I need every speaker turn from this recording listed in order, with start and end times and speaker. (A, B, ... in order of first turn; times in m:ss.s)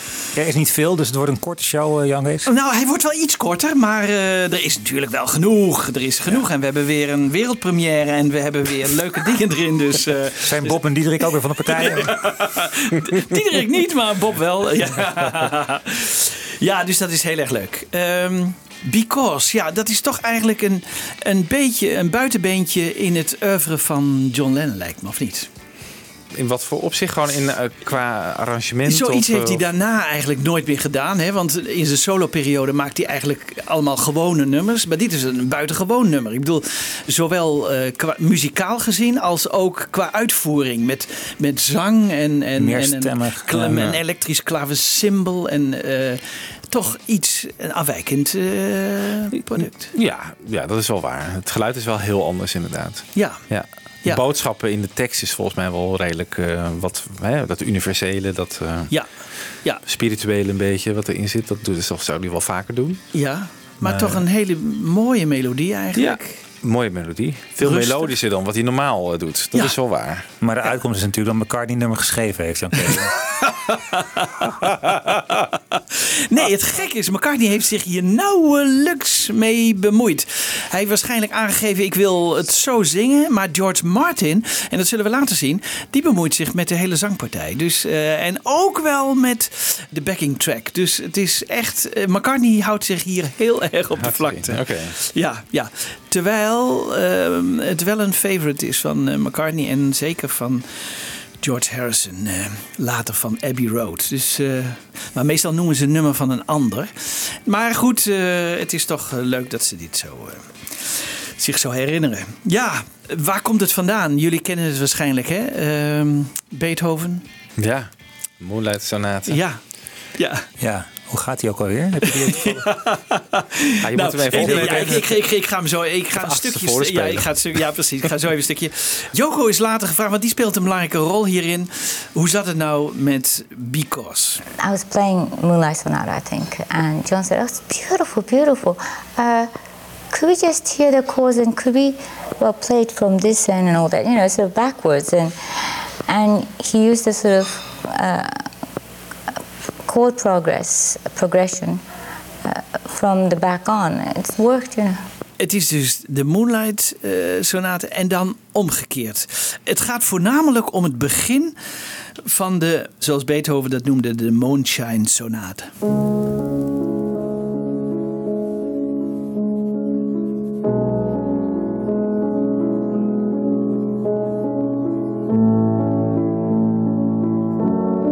0:00.3-0:02.5 A
0:02.4-0:10.8 B
0:10.4-0:12.3 A
0:11.7-0:25.5 B
0:26.3-0:29.6 C
0:28.8-0:49.9 B
0:42.6-0:43.8 A
0:49.9-0:58.9 C
0:53.1-0:53.5 B
0:59.8-1:03.0 C
1:03.1-1:06.4 B
1:03.8-1:04.2 A
1:05.9-1:10.3 C
1:07.6-1:08.1 B
1:10.4-1:13.1 A
1:13.7-1:57.2 B
1:34.0-1:34.9 C
1:57.6-1:59.4 C
1:59.3-1:59.6 B
2:00.2-2:00.4 B
2:00.6-2:02.6 A
2:02.1-2:14.4 B
2:03.8-2:05.1 C
2:04.3-2:05.2 A
2:06.2-2:07.6 C
2:14.6-2:19.5 D
2:20.1-2:25.4 D
2:26.1-2:28.5 D
2:29.9-2:31.8 D
2:32.4-2:35.0 D
2:35.4-2:41.6 B
2:42.2-2:45.7 B